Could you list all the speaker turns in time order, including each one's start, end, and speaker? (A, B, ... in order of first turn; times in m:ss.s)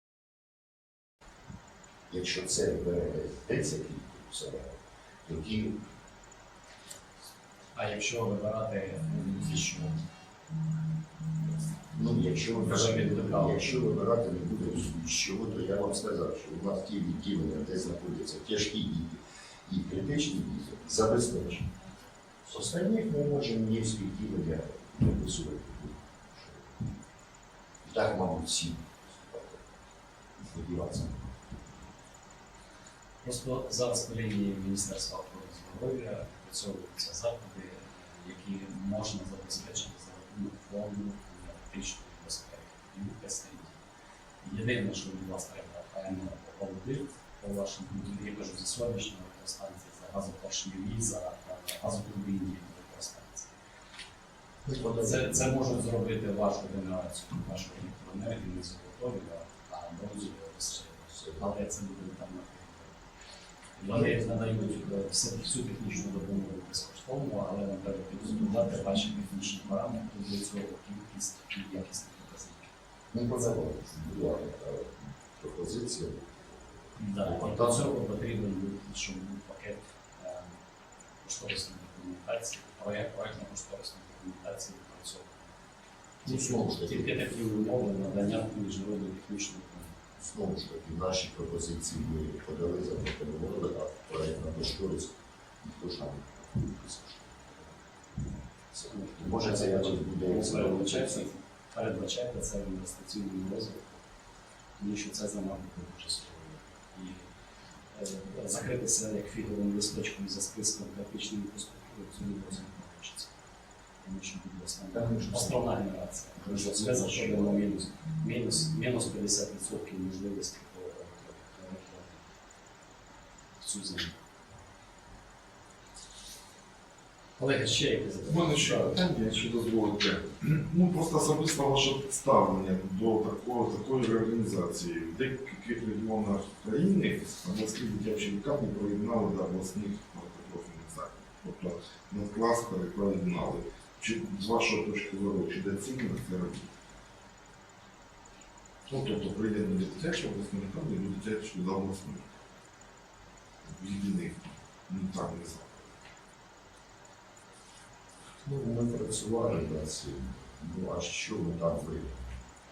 0:02.1-0:05.8 A
0:07.7-0:10.0 B
0:11.9-0:21.8 A
0:12.6-0:13.6 B
0:22.4-0:27.0 A
0:27.8-0:29.8 A
0:30.4-0:31.6 A
0:33.2-0:43.8 B
0:44.4-0:53.6 B
0:54.6-0:55.7 A
0:54.9-1:03.0 B
1:03.8-1:12.7 B
1:13.1-1:18.0 A
1:17.0-1:20.6 B
1:21.2-1:25.5 B
1:26.2-1:27.3 A
1:26.2-1:30.0 B
1:30.2-1:41.3 A
1:38.9-1:44.0 B
1:44.8-1:47.2 B
1:47.9-1:53.4 B
1:54.0-2:02.2 B
1:54.9-1:55.7 A
1:56.4-1:57.7 A
2:03.6-2:04.2 B
2:07.4-2:09.0 B
2:08.2-2:26.7 C
2:28.9-2:32.2 C
2:33.6-2:36.0 C
2:38.4-2:42.4 A